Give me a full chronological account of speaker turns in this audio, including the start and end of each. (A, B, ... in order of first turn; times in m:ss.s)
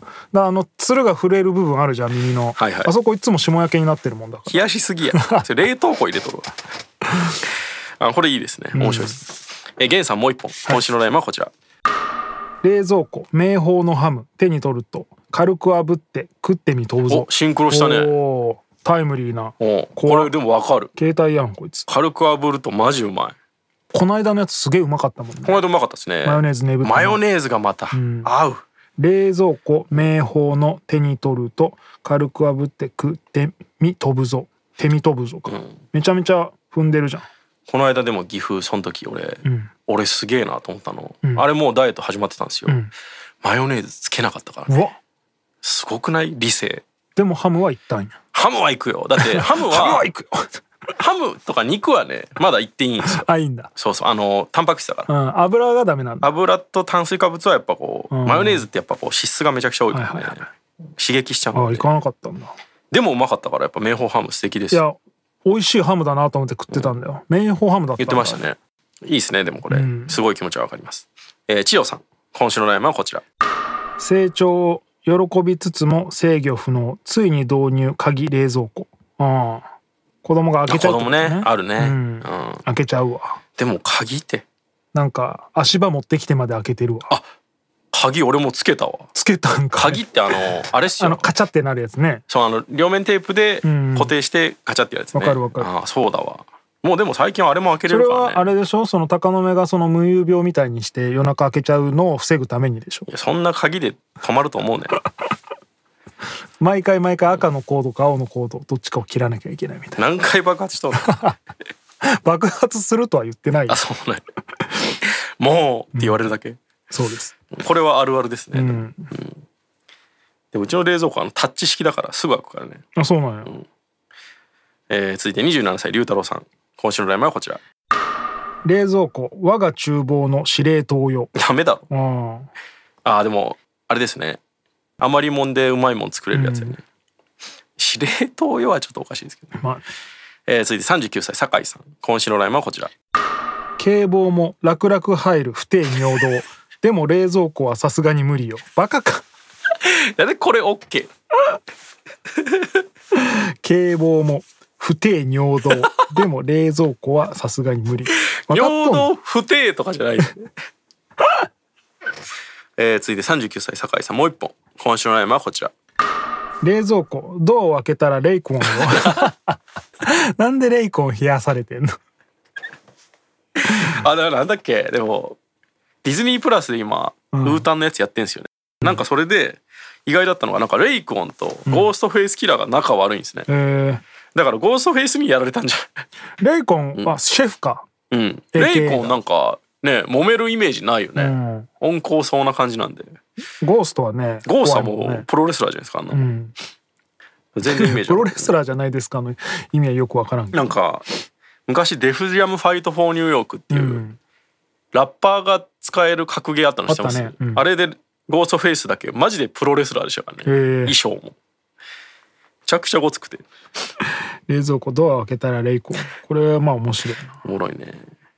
0:00.3-0:05.4 A
0:02.6-0:02.9 B
0:04.5-0:06.5 B
0:08.0-0:11.5 B
0:08.7-0:09.2 A
0:12.6-0:20.3 A
0:17.1-0:18.1 B
0:19.6-0:20.9 B
0:20.9-0:21.9 A
0:21.9-0:23.3 B
0:23.9-0:25.6 A
0:25.4-0:28.6 B
0:26.2-0:27.2 A
0:27.9-0:28.3 A
0:29.0-0:37.2 A
0:35.4-0:35.7 B
0:37.7-0:42.8 B
0:39.4-0:39.7 A
0:42.7-0:42.9 A
0:43.4-0:44.7 B
0:44.7-0:45.0 A
0:45.6-0:46.8 B
0:47.2-0:48.2 A
0:48.3-0:50.1 B
0:49.1-0:50.6 A
0:51.0-0:53.2 B
0:53.0-0:53.7 A
0:53.8-0:55.1 B
0:55.1-0:56.3 A
0:56.2-1:00.4 B
0:58.1-0:58.7 A
0:59.9-1:00.5 A
1:01.0-1:01.9 B
1:01.5-1:02.5 A
1:02.9-1:04.8 B
1:04.7-1:08.5 A
1:08.0-1:13.2 B
1:09.7-1:10.2 A
1:14.0-1:19.7 A
1:20.2-1:23.4 A
1:20.7-1:22.6 B
1:23.6-1:24.4 B
1:24.9-1:27.1 A
1:27.9-1:29.1 B
1:29.1-1:32.2 A
1:29.7-1:31.3 B
1:32.3-1:38.5 B
1:33.6-1:34.1 A
1:35.1-1:35.7 A
1:37.9-1:43.1 A
1:43.1-1:45.0 B
1:46.6-1:50.2 A
1:50.0-1:51.1 B
1:51.0-1:51.4 A
1:52.0-1:53.8 A
1:53.7-1:54.2 B
1:55.4-1:56.6 B
1:55.9-1:56.2 A
1:56.9-1:57.3 A
1:57.5-1:59.4 B
1:58.5-1:59.1 A
2:00.5-2:02.8 B
2:03.0-2:03.6 A
2:04.9-2:07.6 B
2:08.6-2:11.3 A
2:11.3-2:11.8 B
2:11.9-2:12.5 A
2:13.0-2:14.4 B
2:15.0-2:16.8 B
2:16.3-2:16.8 A
2:17.8-2:19.5 B
2:19.5-2:19.8 A
2:20.5-2:22.9 B
2:23.8-2:29.2 A
2:29.8-2:31.1 B
2:32.4-2:32.8 B
2:33.2-2:39.1 A
2:38.5-2:40.5 B
2:42.8-2:45.7 B
2:46.6-2:51.9 A
2:48.6-2:49.3 B
2:53.7-2:55.4 B
2:56.0-3:03.5 B
2:57.3-2:57.7 A
3:03.5-3:04.0 A
3:04.3-3:05.9 B
3:06.4-3:07.9 A
3:08.1-3:13.1 B
3:08.5-3:09.2 A
3:11.2-3:11.7 A
3:13.6-3:15.3 A
3:14.4-3:16.3 B
3:16.1-3:16.5 A
3:17.5-3:18.5 B
3:17.6-3:20.8 A
3:20.5-3:21.0 B
3:21.7-3:24.0 B
3:23.7-3:24.2 A
3:24.9-3:31.3 B
3:26.9-3:27.6 A
3:30.4-3:31.0 A
3:32.6-3:33.4 B
3:34.5-3:37.4 A
3:37.4-3:38.0 B